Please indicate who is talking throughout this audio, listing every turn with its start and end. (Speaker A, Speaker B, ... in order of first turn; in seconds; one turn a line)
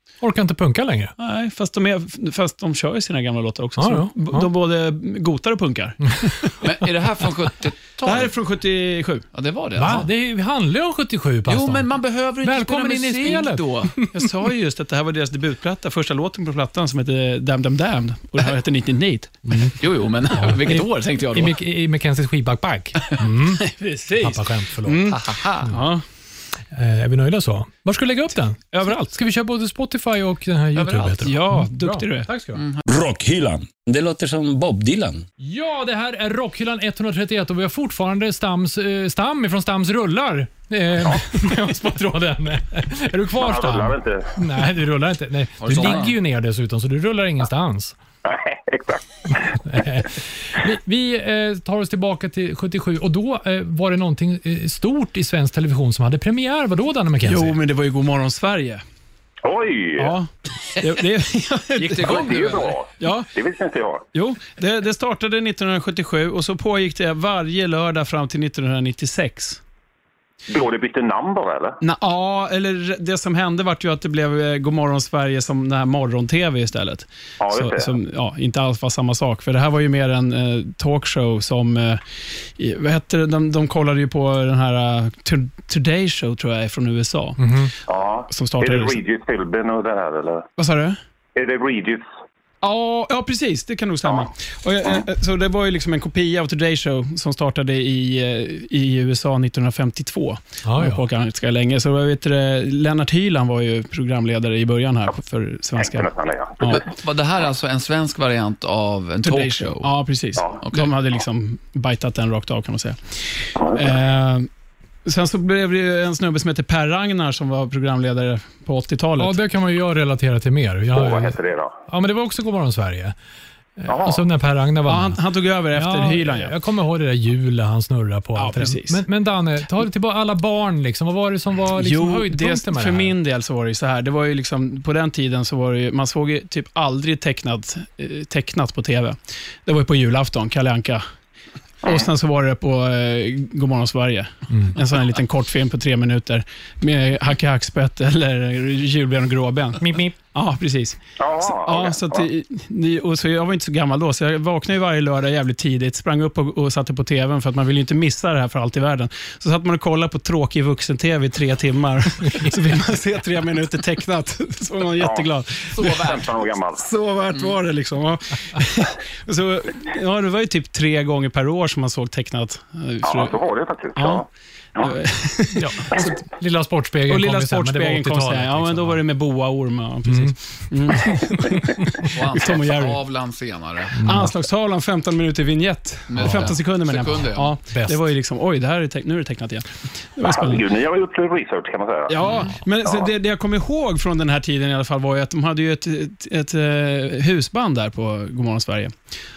Speaker A: 0.2-1.1
Speaker B: 1.2-6.6
Speaker A: 3.8-4.5
Speaker C: 6.6-8.3
Speaker B: 8.0-9.3
Speaker C: 9.3-10.1
Speaker A: 9.8-11.9
Speaker C: 11.4-13.9
Speaker A: 12.4-14.1
Speaker B: 14.1-19.6
Speaker A: 19.5-19.8
Speaker C: 19.8-21.6
Speaker A: 20.4-25.1
Speaker B: 23.6-26.0
Speaker C: 25.0-25.7
Speaker A: 26.7-32.6
Speaker B: 28.7-29.1
Speaker C: 30.8-31.3
Speaker B: 31.2-32.3
Speaker C: 32.6-32.8
Speaker D: 32.9-35.2
Speaker A: 35.4-48.0
Speaker E: 43.4-44.3
Speaker C: 45.6-46.1
Speaker E: 48.2-49.6
Speaker A: 49.6-57.6
Speaker B: 57.2-58.8
Speaker E: 59.4-60.1
Speaker B: 60.0-62.4
Speaker C: 61.8-62.8
Speaker E: 62.0-64.0
Speaker B: 63.0-63.3
Speaker B: 64.1-69.6
Speaker E: 70.5-71.8
Speaker B: 71.8-87.4
Speaker E: 77.4-77.9
Speaker A: 87.4-87.7
Speaker E: 87.9-90.5
Speaker B: 88.3-89.0
Speaker B: 90.6-91.0
Speaker E: 91.4-92.1
Speaker B: 92.6-106.9
Speaker A: 100.6-101.0
Speaker E: 105.8-106.8
Speaker C: 106.6-109.9
Speaker B: 109.2-114.5
Speaker C: 110.6-110.9
Speaker E: 113.6-113.9
Speaker B: 115.0-119.3
Speaker A: 119.2-123.2
Speaker E: 120.9-121.7
Speaker A: 123.8-125.2
Speaker E: 123.9-124.2
Speaker B: 124.9-126.5
Speaker A: 125.7-133.2
Speaker B: 128.4-129.0
Speaker B: 131.8-141.0
Speaker B: 141.8-173.4
Speaker A: 149.8-150.1
Speaker E: 151.2-152.3
Speaker E: 165.0-165.3
Speaker C: 165.7-166.2
Speaker E: 165.8-166.8
Speaker E: 173.0-174.2
Speaker B: 173.9-174.2
Speaker B: 174.8-176.1
Speaker A: 175.5-179.0
Speaker B: 177.1-183.0
Speaker A: 180.1-180.3
Speaker C: 182.0-184.0
Speaker A: 183.9-184.3
Speaker B: 184.0-190.7
Speaker C: 186.1-187.6
Speaker A: 186.2-186.5
Speaker A: 187.7-188.1
Speaker E: 190.2-192.2
Speaker B: 192.1-198.9